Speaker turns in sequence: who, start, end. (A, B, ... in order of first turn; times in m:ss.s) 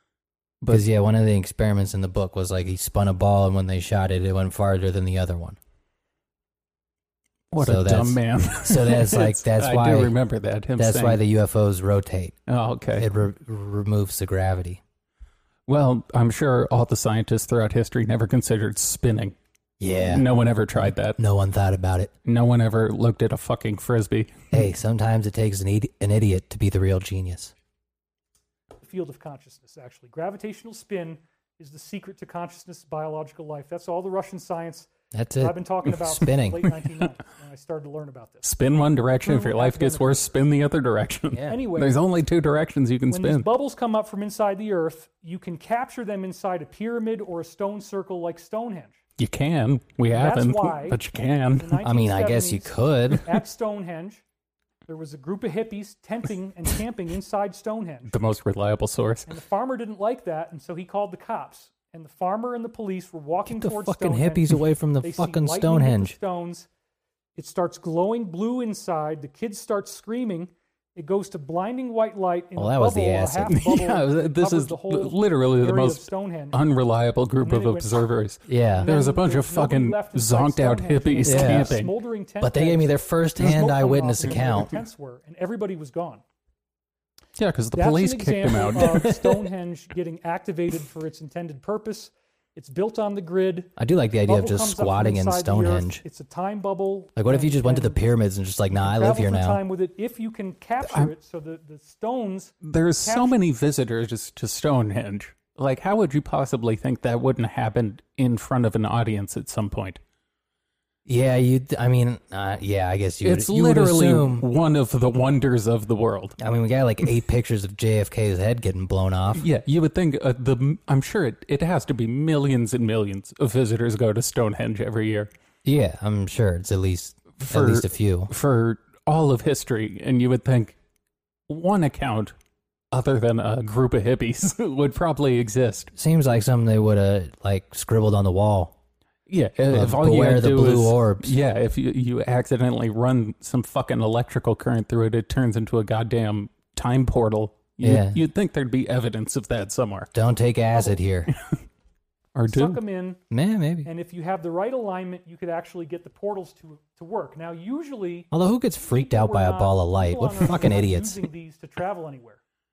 0:00.7-0:05.6 A
0:07.5-0:11.2 B
0:07.6-0:10.1 A
0:10.8-0:12.4 A
0:12.5-0:13.1 B
0:13.0-0:14.8 A
0:15.7-0:19.4 B
0:19.8-0:20.2 A
0:20.1-0:21.2 B
0:21.1-0:22.1 A
0:22.2-0:24.4 B
0:24.5-0:27.5 A
0:28.8-0:38.5 C
0:35.1-0:36.7 A
0:38.4-0:43.5 B
0:39.2-0:40.3 C
0:41.5-0:42.0 C
0:43.1-0:49.0 C
0:49.2-0:51.8 B
0:50.1-0:51.0 C
0:51.6-0:54.2 C
0:51.8-0:53.2 A
0:54.9-0:58.1 C
0:58.1-0:59.3 B
0:59.3-1:06.7 C
1:03.5-1:06.1 A
1:07.4-1:16.6 C
1:12.6-1:13.6 A
1:13.5-1:21.9 B
1:17.4-1:18.1 C
1:18.5-1:18.9 A
1:18.8-1:26.2 C
1:21.2-1:21.8 A
1:22.4-1:24.7 A
1:27.4-1:29.3 B
1:27.7-1:33.7 C
1:33.8-1:36.0 A
1:34.2-1:38.0 C
1:37.2-1:39.6 A
1:38.8-1:43.4 C
1:42.6-1:50.0 B
1:51.1-1:54.4 A
1:53.2-1:56.4 B
1:56.4-1:59.4 A
1:59.3-2:05.3 B
2:05.6-2:08.3 A
2:07.4-2:10.8 B
2:11.5-2:12.4 B
2:12.9-2:15.9 B
2:16.0-2:18.7 A
2:19.3-2:30.1 B
2:19.7-2:21.3 A
2:27.8-2:28.2 A
2:30.1-2:31.3 A
2:32.4-2:32.8 B
2:32.5-2:33.2 C
2:33.3-2:33.9 A
2:33.8-2:38.3 C
2:38.3-2:41.2 A
2:38.8-2:42.4 C